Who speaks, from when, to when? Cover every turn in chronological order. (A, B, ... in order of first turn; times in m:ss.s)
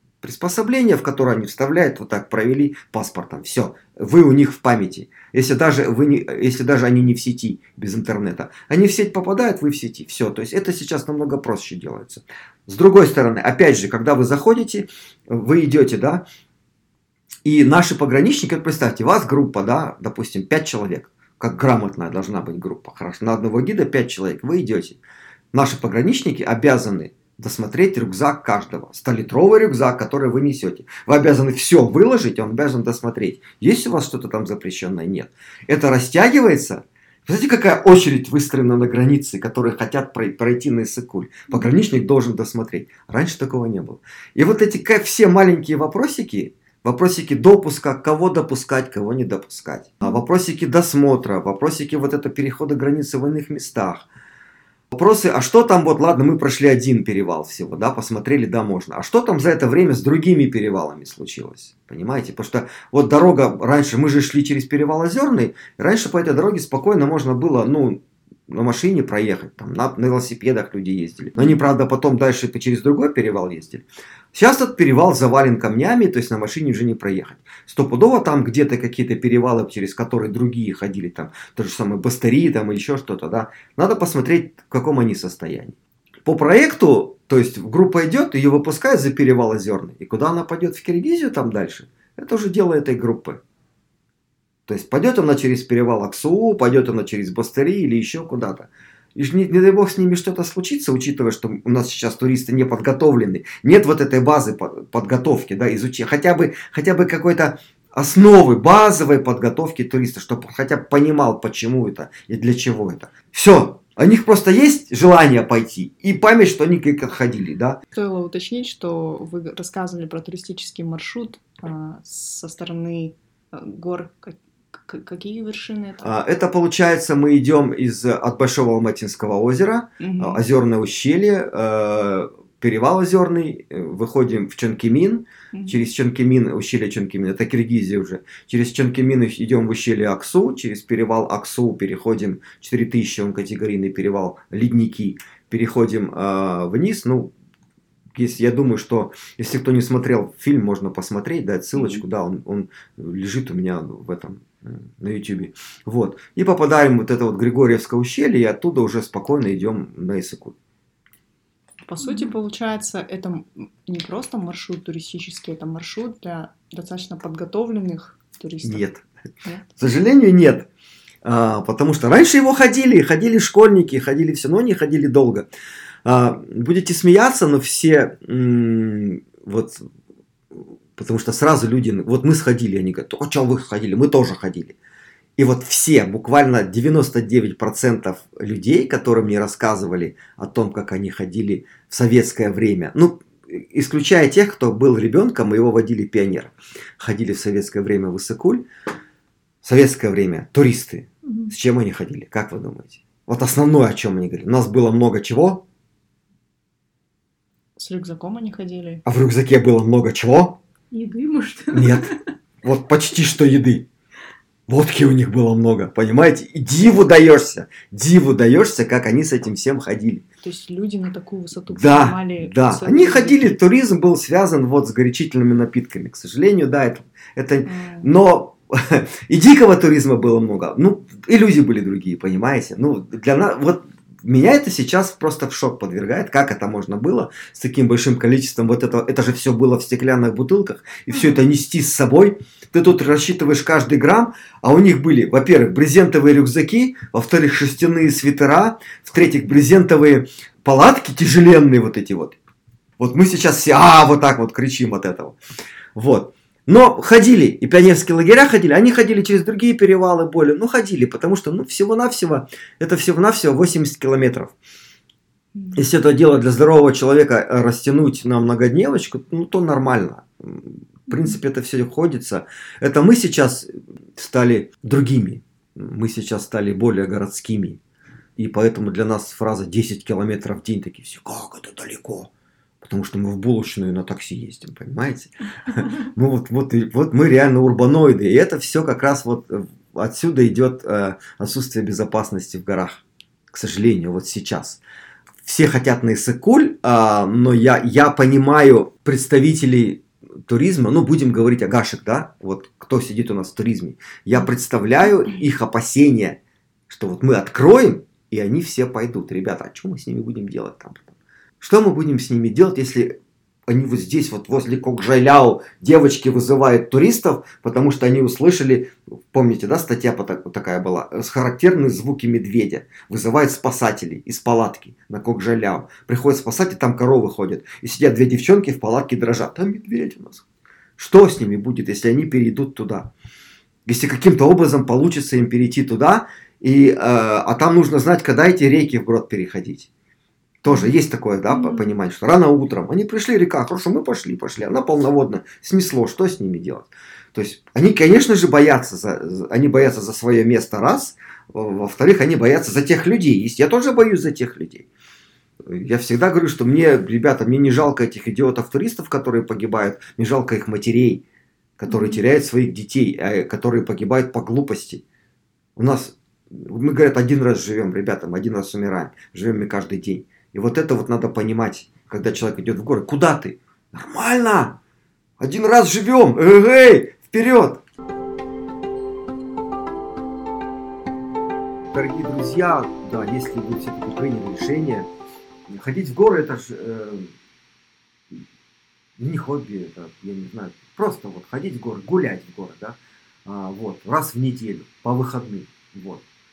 0:00.2-0:16.2 A
0:17.4-0:25.0 A
0:25.5-0:54.1 A
0:54.9-1:33.4 A
1:34.7-1:57.8 A
1:57.9-2:06.1 B
2:06.0-2:27.3 A
2:10.0-2:10.4 B
2:15.5-2:15.9 B
2:28.1-2:40.6 A
2:41.9-2:48.8 B
2:42.0-2:42.3 C
2:48.6-2:49.0 A
2:49.4-2:49.7 B
2:49.8-2:50.7 A
2:51.2-2:55.5 A
2:56.0-2:59.9 A
3:00.5-3:04.8 A
3:05.4-3:18.7 A
3:19.6-3:25.6 A
3:21.2-3:21.5 C
3:27.8-3:29.0 B
3:29.0-3:30.6 A
3:30.9-3:32.2 C
3:31.7-3:32.1 A
3:32.6-3:33.9 A
3:34.7-3:40.2 A
3:40.4-3:43.6 B
3:41.7-4:12.4 A
3:47.6-3:48.1 B
4:13.0-4:15.4 A
4:16.0-4:24.5 A
4:25.7-4:37.8 A
4:38.4-4:42.3 A
4:42.8-4:54.8 A
4:55.4-5:13.1 A
5:13.7-5:30.4 A
5:31.0-5:33.1 A
5:33.9-5:39.9 A
5:40.6-5:54.9 A
5:41.5-5:42.0 C
5:55.6-6:01.2 A
6:01.8-6:05.0 A
6:05.8-6:14.8 A
6:15.4-6:17.8 A
6:21.9-6:25.1 A
6:25.7-6:27.3 A
6:29.2-6:36.2 A